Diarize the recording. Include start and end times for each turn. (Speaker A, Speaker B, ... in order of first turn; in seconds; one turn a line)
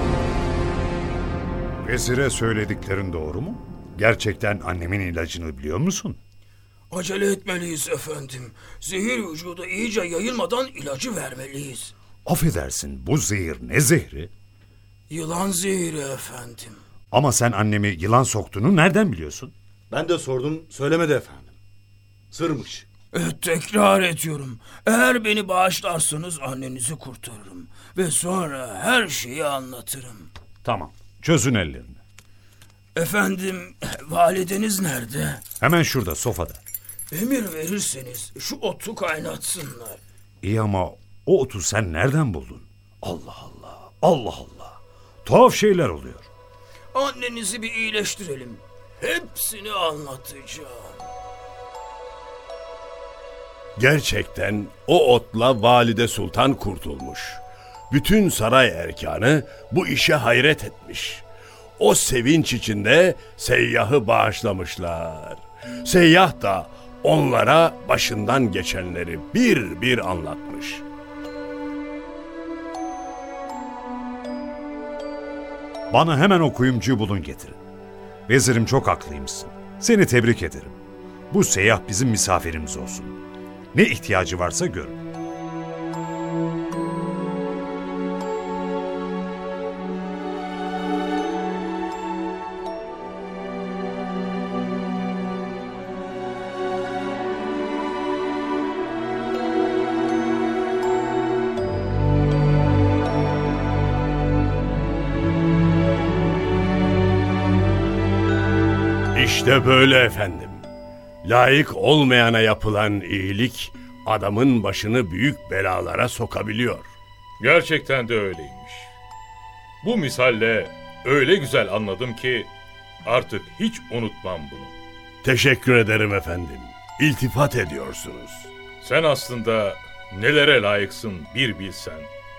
Speaker A: 1.8-6.2
Speaker B: 6.9-11.9
Speaker A: 12.2-14.3
Speaker B: 15.1-16.8
Speaker A: 17.1-19.5
Speaker C: 19.9-21.6
Speaker C: 22.3-22.9
Speaker B: 23.1-30.3
Speaker A: 30.6-32.0
Speaker B: 33.0-35.4
Speaker A: 35.6-36.6
Speaker B: 37.1-40.0
Speaker A: 40.4-46.3
Speaker B: 46.9-51.1
Speaker D: 53.8-61.2
Speaker D: 61.8-70.8
Speaker A: 75.9-77.6
Speaker A: 78.3-80.8
Speaker A: 81.3-83.2
Speaker A: 83.7-85.0
Speaker D: 109.1-110.7
Speaker D: 111.2-116.9
Speaker E: 117.4-118.9
Speaker E: 119.8-122.5
Speaker E: 123.0-124.7
Speaker D: 125.2-128.5
Speaker E: 128.8-132.1